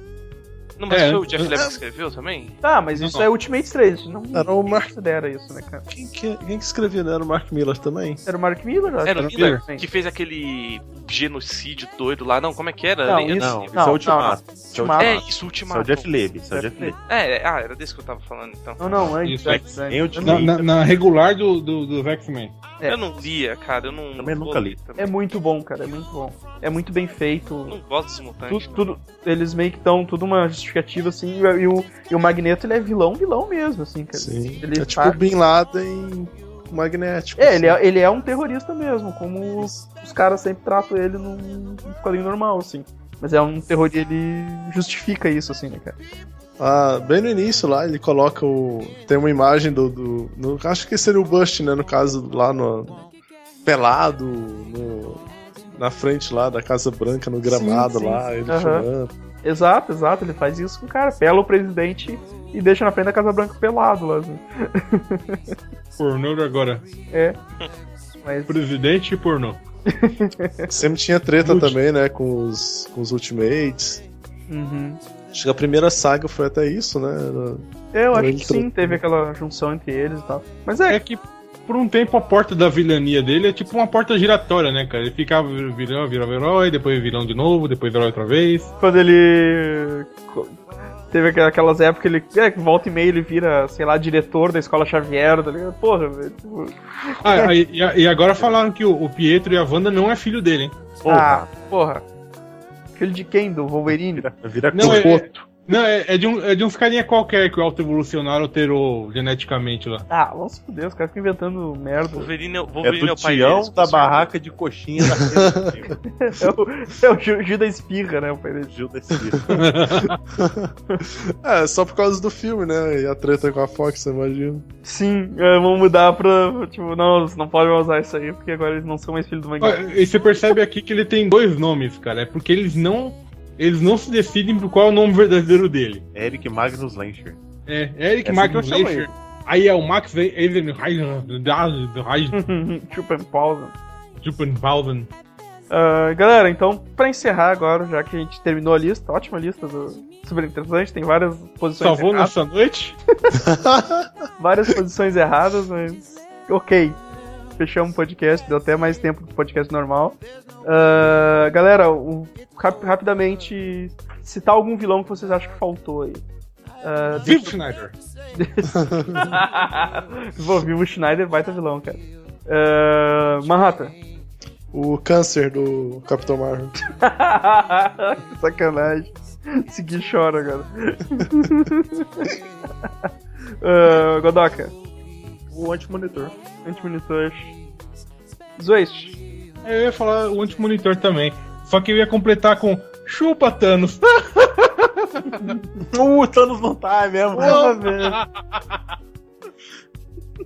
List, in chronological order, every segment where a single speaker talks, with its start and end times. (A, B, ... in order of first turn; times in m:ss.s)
0:00.8-0:02.6 A
0:00.9-0:01.6 B
0:02.6-0:05.8 C
0:03.0-0:03.3 B
0:04.3-0:04.9 D
0:05.9-0:08.2 D
0:08.2-0:09.8 C
0:09.0-0:14.0 A
0:09.1-0:09.6 B
0:13.0-0:15.2 C
0:13.4-0:17.0 E
0:15.0-0:16.1 A
0:16.5-0:16.9 C
0:17.0-0:19.1 A
0:18.8-0:20.5 C
0:19.0-0:20.6 E
0:19.2-0:19.6 B
0:20.2-0:22.5 B
0:22.8-0:25.1 A
0:24.2-0:24.8 E
0:25.0-0:27.8 C
0:27.7-0:28.9 A
0:28.5-0:35.2 C
0:34.1-0:37.8 D
0:37.4-0:46.0 C
0:46.6-0:53.0 D
0:53.6-0:55.2 D
0:55.8-0:59.1 D
0:57.4-0:58.8 C
0:59.4-1:05.6 C
1:06.0-1:06.8 B
1:07.1-1:07.4 C
1:08.2-1:08.6 C
1:08.5-1:09.6 B
1:09.9-1:10.7 C
1:10.7-1:14.0 D
1:11.4-1:11.8 B
1:14.5-1:15.0 C
1:15.3-1:19.0 D
1:17.9-1:21.0 C
1:20.9-1:28.7 B
1:28.8-1:30.6 C
1:31.1-1:37.5 C
1:37.2-1:40.8 B
1:41.0-1:41.7 E
1:41.1-1:42.0 C
1:43.0-1:44.2 C
1:43.9-1:45.2 E
1:44.7-1:50.0 B
1:44.8-1:45.3 D
1:50.1-1:52.3 C
1:52.1-1:54.3 A
1:52.8-1:56.0 E
1:55.1-1:55.6 D
1:55.9-1:58.7 C
1:58.7-1:59.7 E
1:59.5-2:00.2 B
2:00.3-2:04.6 D
2:04.8-2:09.8 C
2:09.6-2:16.0 B
2:16.1-2:17.4 E
2:17.7-2:22.4 B
2:18.2-2:19.1 E
2:22.3-2:23.7 C
2:24.2-2:25.1 B
2:25.7-2:32.3 C
2:31.8-2:33.0 B
2:33.3-2:34.1 D
2:34.4-2:37.0 C
2:37.6-2:46.2 C
2:46.8-2:47.6 C
2:47.2-2:47.9 B
2:48.4-2:53.9 C
2:48.7-2:49.3 D
2:54.7-2:56.7 D
2:57.0-3:02.9 C
3:03.6-3:04.7 C
3:05.5-3:06.3 E
3:06.6-3:07.5 C
3:08.6-3:09.2 C
3:09.6-3:15.6 B
3:15.2-3:15.6 C
3:15.8-3:18.1 E
3:17.3-3:18.0 C
3:17.4-3:18.8 B